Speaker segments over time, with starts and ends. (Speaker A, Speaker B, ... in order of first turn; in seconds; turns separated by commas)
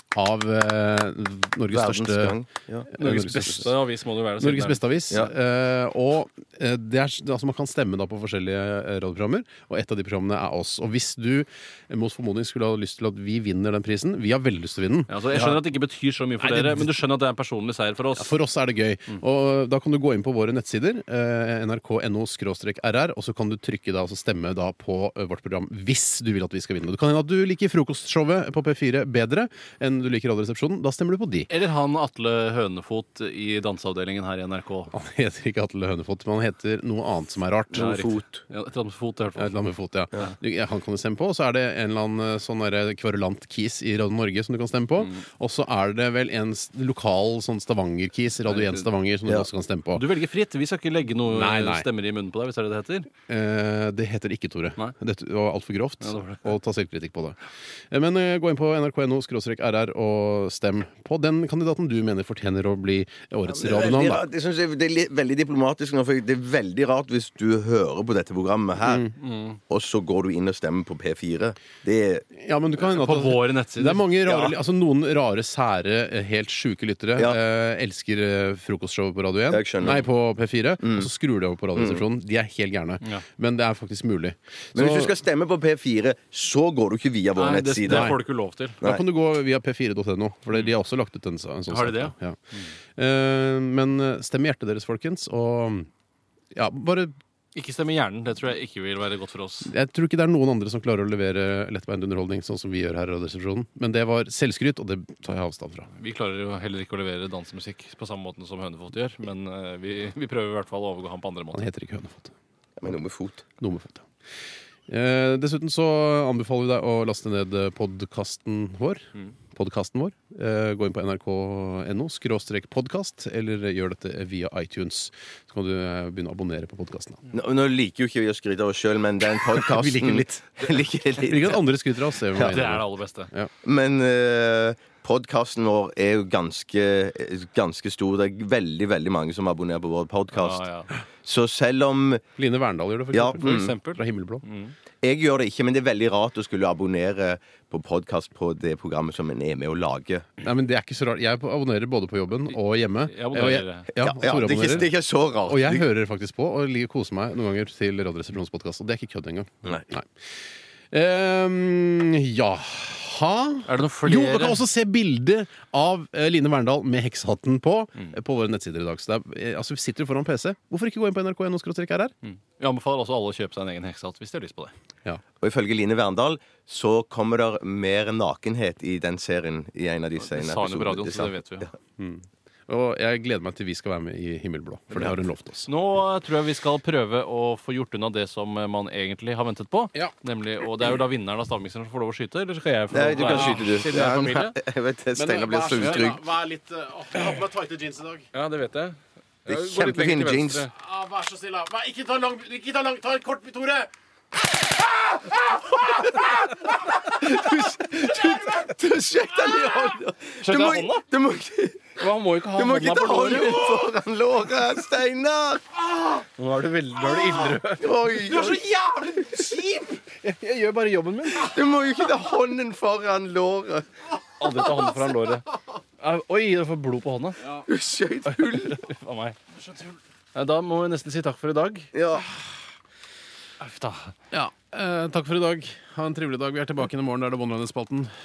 Speaker A: 0.1-2.4, Speaker B: 1.7-2.9, Speaker A: 2.9-3.8, Speaker C: 3.0-4.8, Speaker A: 4.4-15.1, Speaker C: 15.1-18.4, Speaker B: 15.3-15.6, Speaker A: 16.4-16.9, Speaker A: 18.2-31.5, Speaker C: 31.5-34.9, Speaker A: 34.9-38.1, Speaker B: 37.7-38.4, Speaker C: 37.7-39.6, Speaker A: 39.4-50.1, Speaker C: 48.5-48.9, Speaker C: 49.9-53.1, Speaker A: 51.3-51.9, Speaker A: 53.3-57.4, Speaker C: 56.0-56.5, Speaker A: 57.9-64.3, Speaker B: 63.5-69.1, Speaker A: 68.8-69.1, Speaker C: 69.2-69.6, Speaker B: 69.7-72.3, Speaker A: 72.3-85.2, Speaker C: 72.9-74.1, Speaker B: 74.3-74.6, Speaker B: 79.5-80.1, Speaker B: 80.8-81.1, Speaker B: 81.8-82.1, Speaker B: 84.8-88.1, Speaker C: 87.4-88.8, Speaker A: 87.8-88.2, Speaker A: 88.8-92.4, Speaker C: 91.7-92.7, Speaker A: 93.0-95.9, Speaker A: 96.5-97.1, Speaker C: 97.5-99.7, Speaker A: 99.6-105.9, Speaker C: 105.9-111.7, Speaker A: 111.5-112.3, Speaker B: 112.8-113.5, Speaker A: 113.6-114.0, Speaker A: 114.9-127.2, Speaker B: 127.3-131.6, Speaker A: 129.5-133.5, Speaker C: 132.3-133.3, Speaker B: 133.6-140.7, Speaker C: 140.3-140.9, Speaker B: 141.2-142.2, Speaker A: 142.4-144.4, Speaker B: 143.1-143.8, Speaker C: 143.4-144.8, Speaker B: 145.0-150.3, Speaker A: 150.4-160.1, Speaker C: 153.1-153.9, Speaker B: 153.9-155.9, Speaker A: 160.9-172.1, Speaker C: 163.7-164.6, Speaker C: 172.2-174.7, Speaker B: 175.4-181.7, Speaker C: 180.2-181.7, Speaker A: 182.0-185.7, Speaker C: 185.7-194.6, Speaker B: 192.9-196.2, Speaker A: 193.2-194.4, Speaker A: 195.2-198.3, Speaker C: 198.3-200.7, Speaker B: 199.5-200.7, Speaker A: 200.7-203.9, Speaker A: 205.3-206.3, Speaker B: 205.9-212.0, Speaker C: 210.4-211.1, Speaker C: 212.0-213.8, Speaker B: 212.6-215.7, Speaker C: 216.2-221.5, Speaker B: 217.7-218.6, Speaker B: 221.3-223.9, Speaker C: 224.4-225.5, Speaker C: 226.0-227.6, Speaker B: 227.7-228.8, Speaker C: 228.3-229.4, Speaker C: 230.3-231.9, Speaker B: 231.9-232.3, Speaker C: 233.6-234.2, Speaker A: 234.3-238.1